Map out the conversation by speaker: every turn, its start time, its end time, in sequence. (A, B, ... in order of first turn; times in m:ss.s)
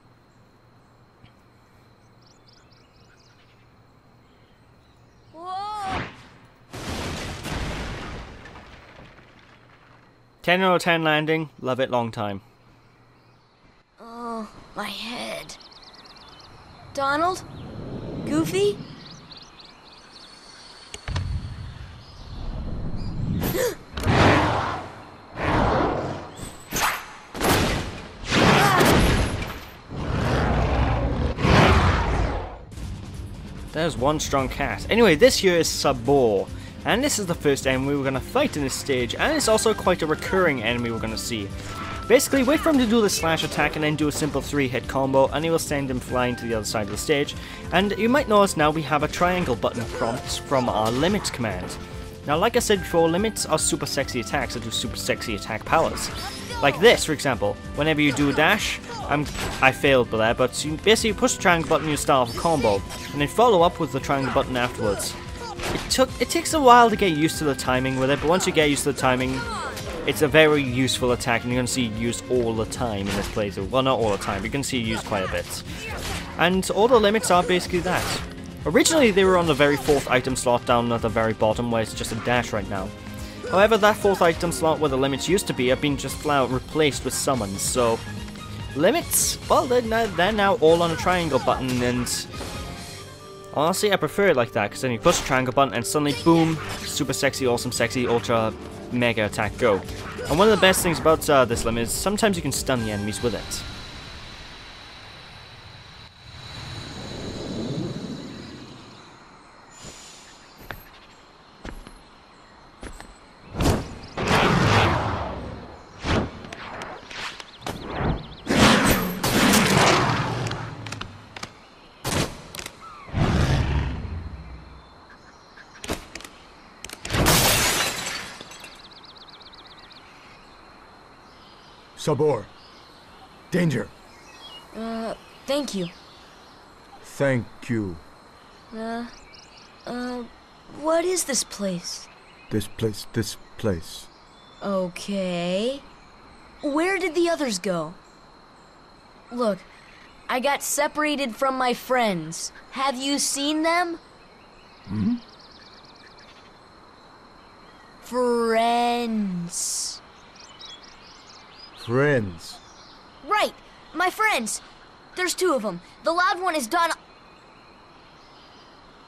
0:05.3-0:06.0 A
0:10.4-0:12.4 B
0:14.0-0:15.6 A
0:16.9-0:17.4 A
0:18.2-0:18.8 A
0:33.7-0:41.5 B
0:42.1-1:05.2 B
1:05.7-1:09.4 B
1:10.0-1:15.6 B
1:16.4-1:22.9 B
1:23.5-1:28.0 B
1:28.7-1:32.3 B
1:33.5-1:43.6 B
2:12.0-2:12.5 C
2:13.5-2:13.9 C
2:14.7-2:15.9 A
2:17.0-2:18.0 C
2:18.7-2:19.1 A
2:19.8-2:22.1 A
2:22.5-2:24.1 C
2:24.6-2:25.8 A
2:26.6-2:28.0 A
2:29.3-2:29.7 A
2:30.3-2:34.0 A
2:34.9-2:35.2 C
2:38.0-2:40.0 A
2:41.8-2:42.6 C
2:43.2-2:44.6 A
2:45.1-2:47.0 A